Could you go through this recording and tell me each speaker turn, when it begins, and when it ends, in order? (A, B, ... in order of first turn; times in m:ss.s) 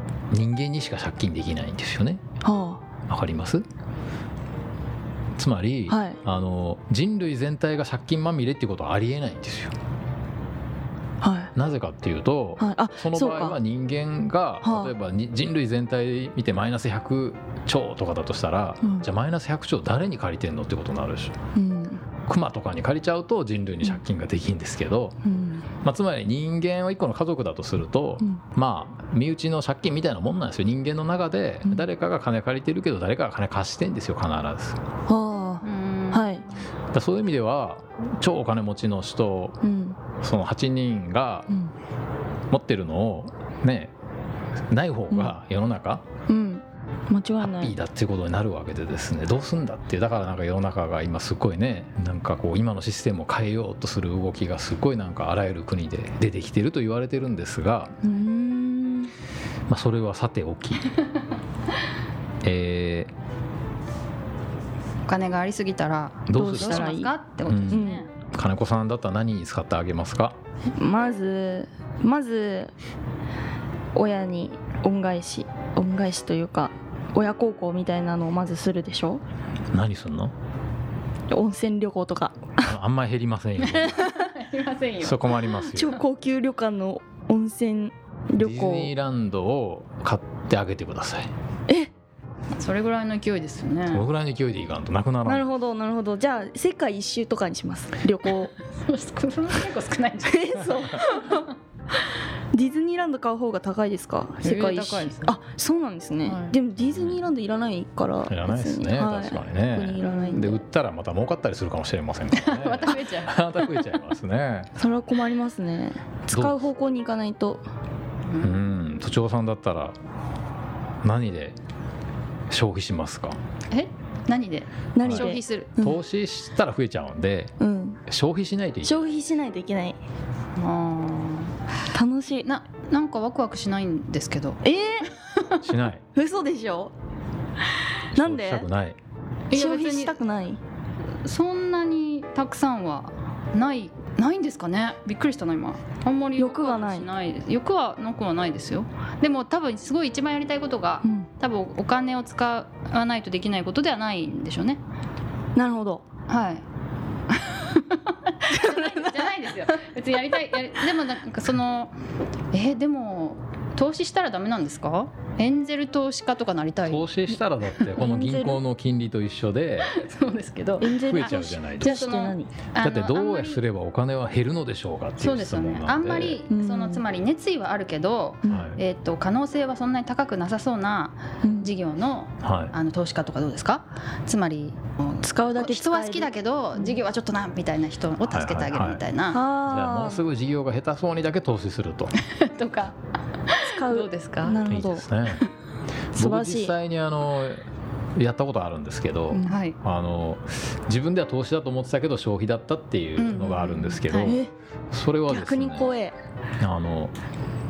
0:00.3-0:02.2 A
0:02.4-0:02.8 B
0:03.1-0:03.6 A
0:05.4-0:09.7 A
0:05.9-0:06.2 B
0:11.2-0:11.5 B
0:11.6-0:21.4 A
0:12.6-0:13.6 B
0:14.6-0:14.9 B
0:18.8-0:19.1 B
0:21.6-0:22.0 B
0:22.3-0:25.2 A
0:25.2-0:25.7 B
0:25.8-0:34.8 A
0:35.1-0:36.4 B
0:35.6-0:36.3 C
0:36.9-0:39.6 A
0:39.6-0:40.0 B
0:40.2-0:41.5 A
0:42.5-0:43.9 A
0:44.7-0:46.1 A
0:45.1-0:45.4 B
0:46.3-0:47.8 B
0:47.4-0:58.0 A
0:58.0-0:59.1 B
0:59.7-1:00.9 A
1:02.4-1:03.1 A
1:05.1-1:08.1 C
1:06.3-1:06.9 A
1:06.3-1:07.1 B
1:07.5-1:10.4 A
1:07.7-1:08.1 B
1:10.8-1:12.7 B
1:13.9-1:19.2 B
1:19.7-1:20.3 A
1:21.3-1:22.8 B
1:22.6-1:24.0 A
1:23.6-1:24.3 B
1:24.0-1:25.3 C
1:25.0-1:26.0 A
1:25.5-1:28.9 B
1:28.4-1:31.3 A
1:32.5-1:34.0 C
1:33.9-1:35.5 A
1:35.2-1:38.5 B
1:38.7-1:41.5 C
1:40.2-1:41.5 B
1:42.5-1:50.6 B
1:44.4-1:45.3 C
1:46.2-1:46.6 C
1:46.8-1:47.2 A
1:48.3-1:54.7 A
1:52.3-1:53.8 C
1:54.8-1:57.6 B
1:56.3-1:56.7 A
1:58.3-1:58.6 C
1:58.4-2:00.0 A
2:01.0-2:01.6 A
2:02.5-2:03.4 A
2:03.7-2:05.8 C
2:05.0-2:06.0 B
2:05.0-2:07.5 A
2:07.6-2:08.0 B
2:08.1-2:09.1 A
2:08.8-2:10.0 B
2:10.6-2:11.6 C
2:11.9-2:12.5 B
2:12.4-2:14.6 C
2:14.6-2:15.1 B
2:15.3-2:15.7 C
2:15.6-2:16.0 A
2:16.1-2:16.9 B
2:18.1-2:18.7 B
2:18.1-2:19.0 A
2:19.5-2:20.2 C
2:19.5-2:20.6 B
2:21.2-2:34.8 C
2:26.4-2:27.1 B
2:31.0-2:31.3 B
2:35.6-2:36.0 B
2:36.3-2:36.6 C
2:37.3-2:41.9 C
2:38.5-2:39.8 B
2:42.5-2:47.9 C
2:46.8-2:49.9 A
2:48.0-2:48.6 B
2:49.9-2:53.6 C
2:50.8-2:52.7 B
2:51.0-2:52.0 A
2:52.8-2:56.4 A
2:55.2-3:09.4 C
2:56.5-2:57.0 B
2:58.4-2:58.7 B
2:58.5-2:58.8 A
3:01.4-3:01.8 B
3:02.4-3:02.7 A
3:05.2-3:07.0 B
3:08.3-3:09.0 A
3:09.3-3:10.2 B
3:09.6-3:12.2 A
3:12.2-3:13.0 C
3:13.5-3:14.6 C
3:13.6-3:15.1 B
3:14.7-3:15.4 A
3:16.1-3:16.8 B
3:16.2-3:17.6 A
3:18.2-3:24.4 A
3:19.3-3:19.6 B
3:19.5-3:19.8 C
3:23.2-3:24.4 C
3:24.2-3:24.5 B
3:24.9-3:26.0 A
3:25.3-3:26.2 B
3:26.6-3:27.1 A